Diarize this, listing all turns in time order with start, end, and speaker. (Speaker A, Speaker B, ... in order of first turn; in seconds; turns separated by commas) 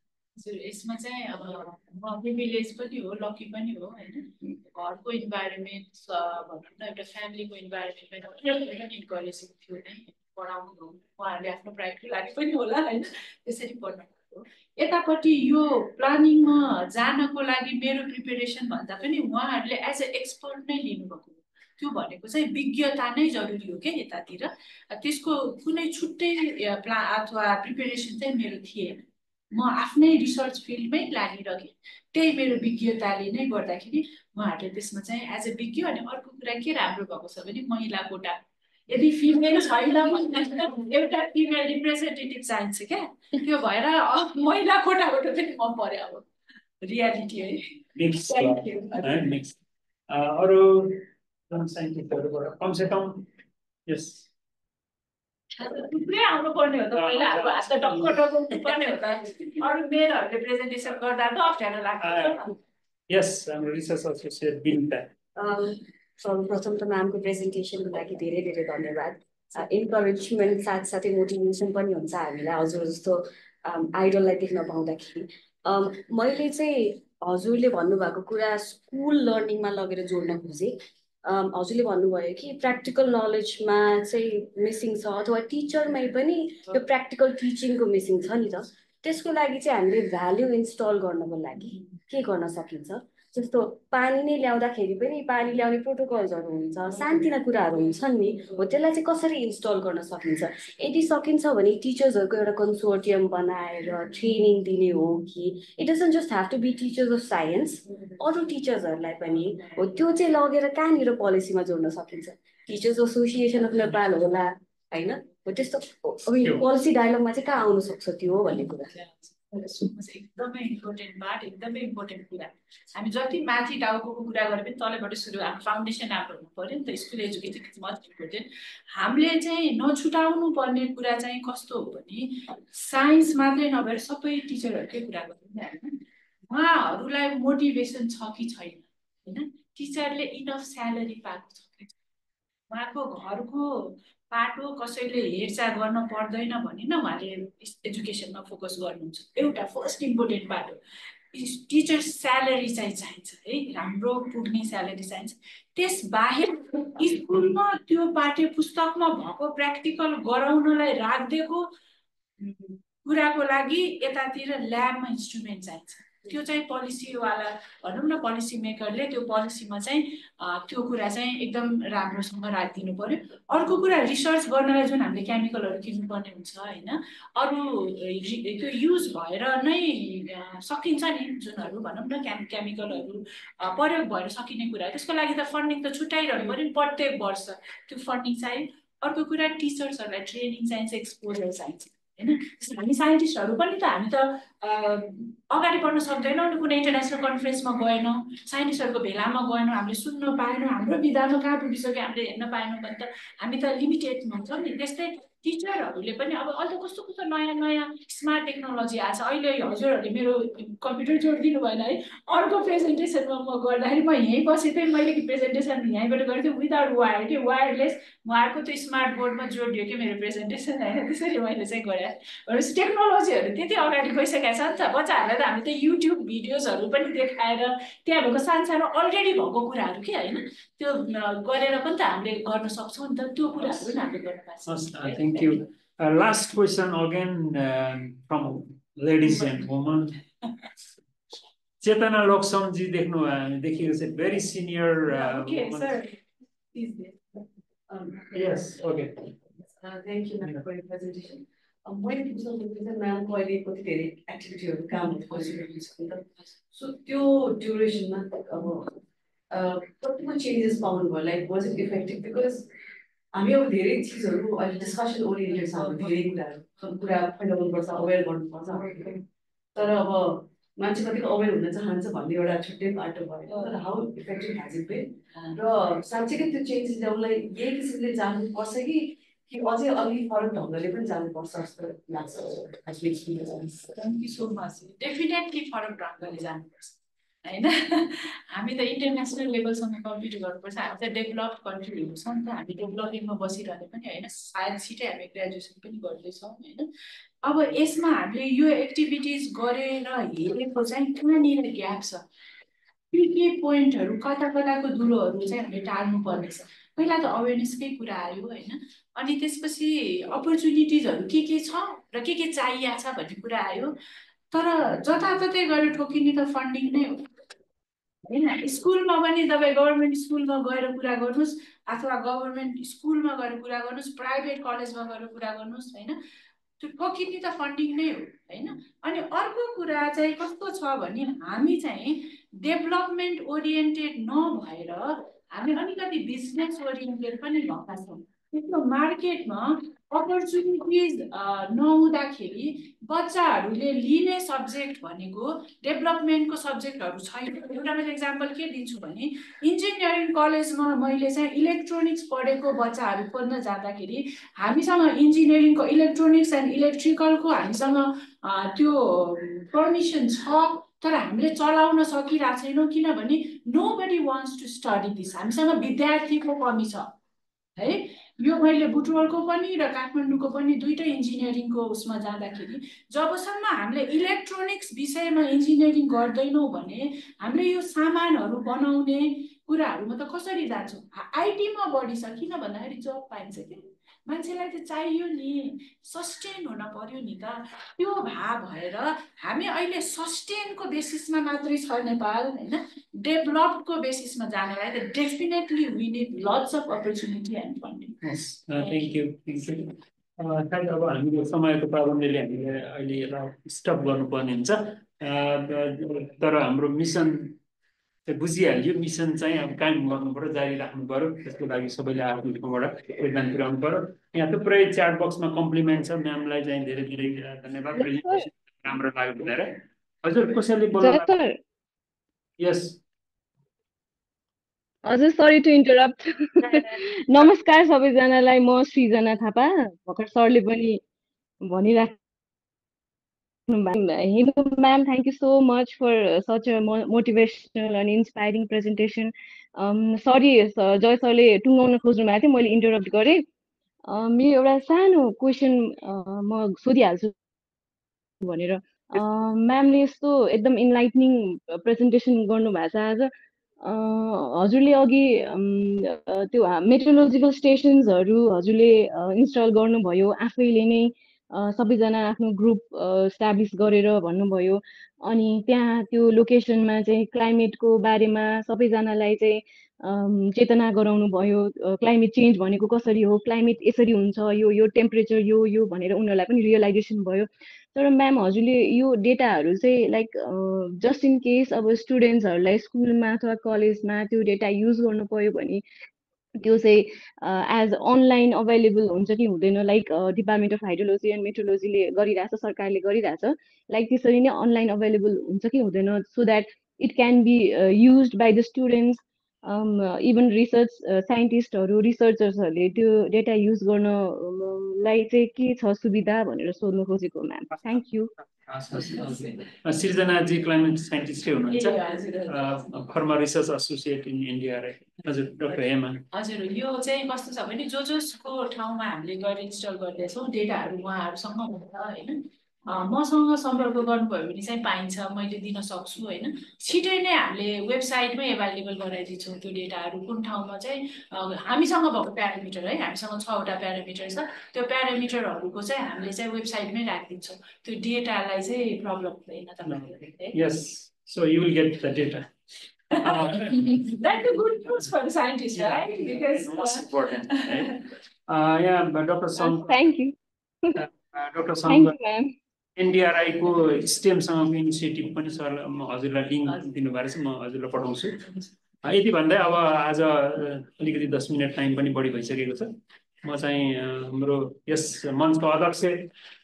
Speaker A: 0.4-38.4, Speaker A: 38.9-46.2, Speaker A: 46.8-49.3, Speaker B: 48.0-49.6, Speaker B: 50.1-53.2, Speaker B: 53.9-54.3, Speaker A: 55.6-62.5, Speaker B: 57.0-58.1, Speaker B: 62.0-62.5, Speaker B: 63.1-65.1, Speaker C: 65.4-118.9, Speaker A: 118.9-136.0, Speaker A: 136.5-141.9, Speaker A: 142.7-150.8, Speaker A: 151.3-161.7, Speaker A: 162.4-235.6, Speaker B: 234.7-240.2, Speaker B: 241.8-245.9, Speaker A: 245.1-246.2, Speaker A: 246.7-247.1, Speaker D: 247.9-248.2, Speaker B: 248.3-249.1, Speaker D: 249.8-258.9, Speaker D: 259.5-262.7, Speaker D: 263.3-269.2, Speaker D: 269.8-283.9, Speaker A: 283.9-296.9, Speaker A: 297.4-302.2, Speaker A: 303.1-313.9, Speaker A: 314.5-317.3, Speaker A: 318.3-326.2, Speaker A: 326.8-367.1, Speaker A: 367.8-399.1, Speaker B: 398.2-407.6, Speaker B: 408.2-421.3, Speaker E: 417.9-418.4, Speaker E: 421.0-421.6, Speaker B: 422.6-423.0, Speaker E: 425.1-431.0, Speaker E: 431.6-432.1, Speaker E: 433.7-443.4, Speaker E: 444.1-447.3, Speaker E: 448.4-485.8, Speaker E: 486.6-508.3, Speaker B: 508.7-516.2, Speaker A: 511.7-512.8, Speaker A: 516.3-540.6, Speaker B: 539.9-542.5, Speaker A: 543.1-548.0, Speaker B: 543.2-544.0, Speaker B: 545.7-549.9, Speaker E: 549.6-551.0, Speaker B: 551.0-552.1, Speaker E: 551.9-552.5, Speaker B: 553.0-558.4, Speaker B: 559.0-562.9, Speaker B: 563.4-566.3